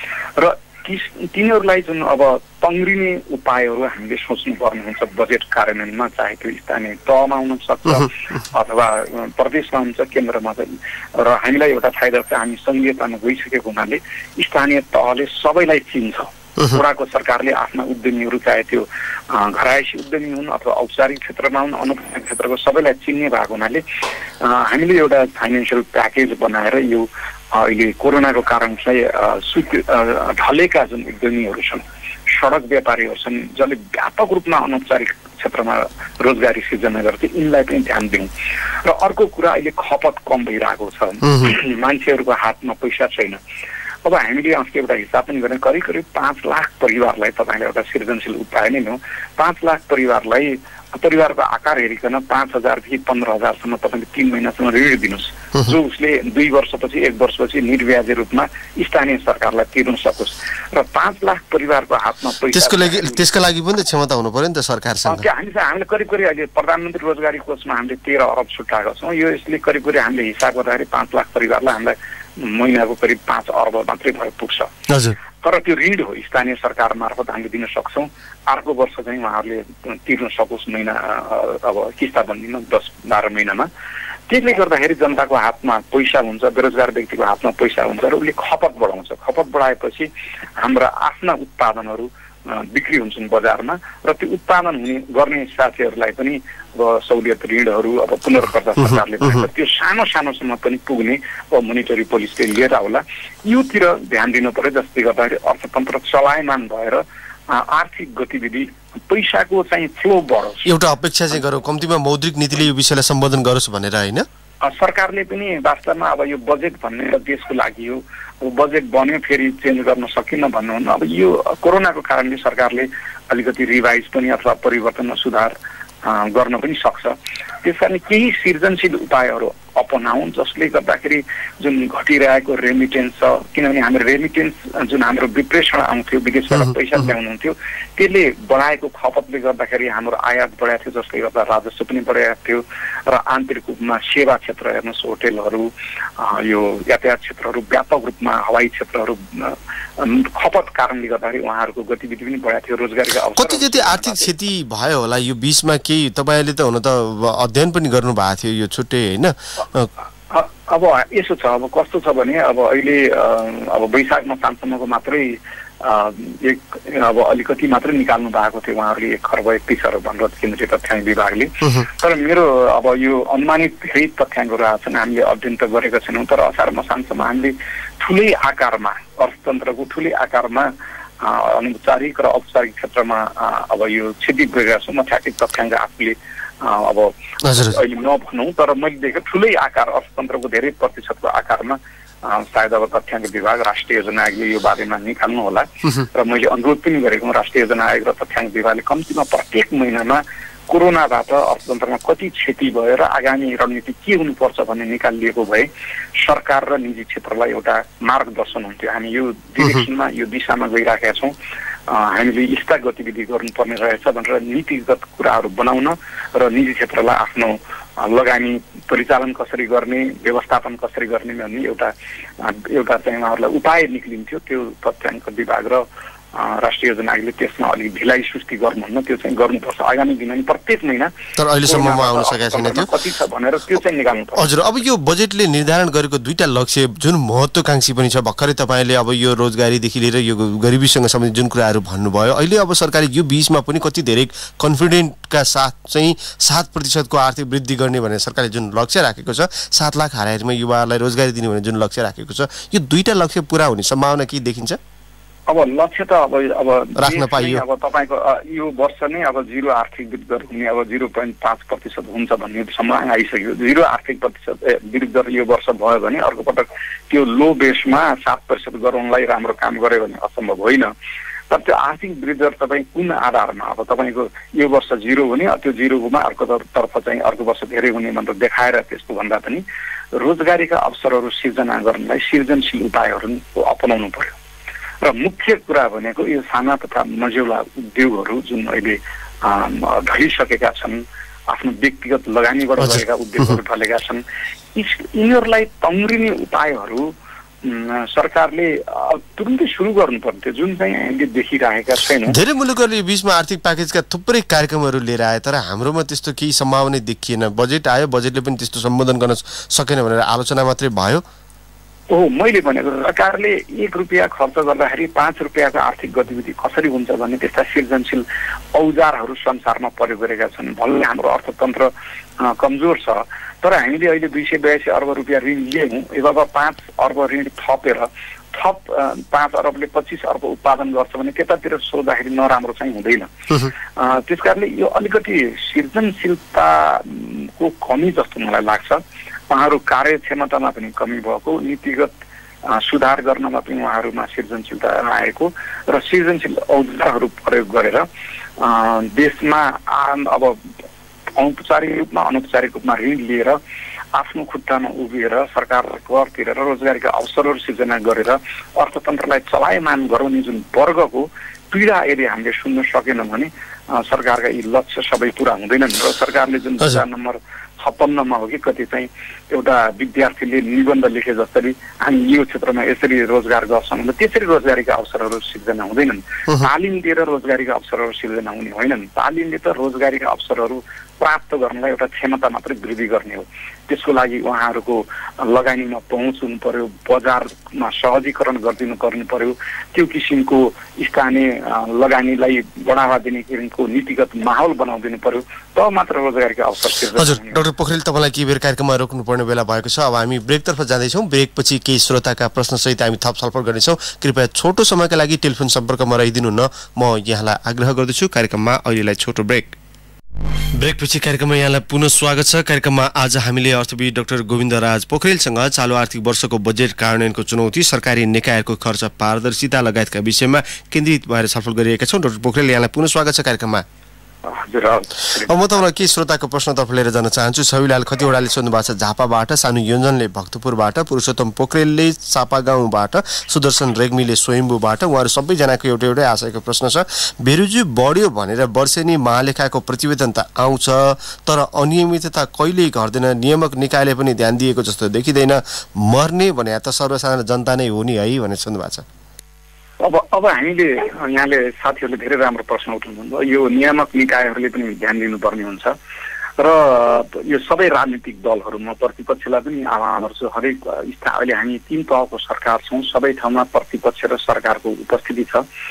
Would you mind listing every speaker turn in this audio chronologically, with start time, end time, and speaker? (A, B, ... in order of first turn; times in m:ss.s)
0:00.4-0:23.8 A
0:24.4-0:38.3 A
0:38.8-0:43.4 A
0:41.2-0:41.5 B
0:44.0-1:03.3 A
1:02.5-1:05.2 B
1:05.0-1:14.7 A
1:14.9-1:15.2 B
1:15.4-1:23.7 A
1:24.3-1:50.7 A
1:38.9-1:39.4 B
1:50.6-1:54.2 B
1:54.6-2:34.3 A
2:33.4-2:39.9 B
2:40.3-3:31.3 A
3:07.4-3:07.8 B
3:31.9-3:51.1 A
3:51.4-3:52.9 B
3:51.6-3:54.6 A
3:54.4-4:14.8 B
4:15.5-4:30.9 A
4:17.0-4:17.6 B
4:31.5-4:39.6 A
4:40.1-4:44.4 A
4:45.0-4:54.2 A
4:52.8-4:53.5 B
4:54.7-4:57.1 A
4:57.6-5:02.4 A
5:02.2-5:11.2 B
5:12.1-5:42.1 A
5:42.6-5:48.0 A
5:48.6-5:50.6 A
5:51.4-5:53.6 A
5:54.1-6:37.6 A
6:37.2-6:49.8 B
6:50.8-7:03.8 B
7:04.4-7:05.8 A
7:05.4-7:29.0 B
7:30.0-7:35.9 A
7:36.6-7:45.6 A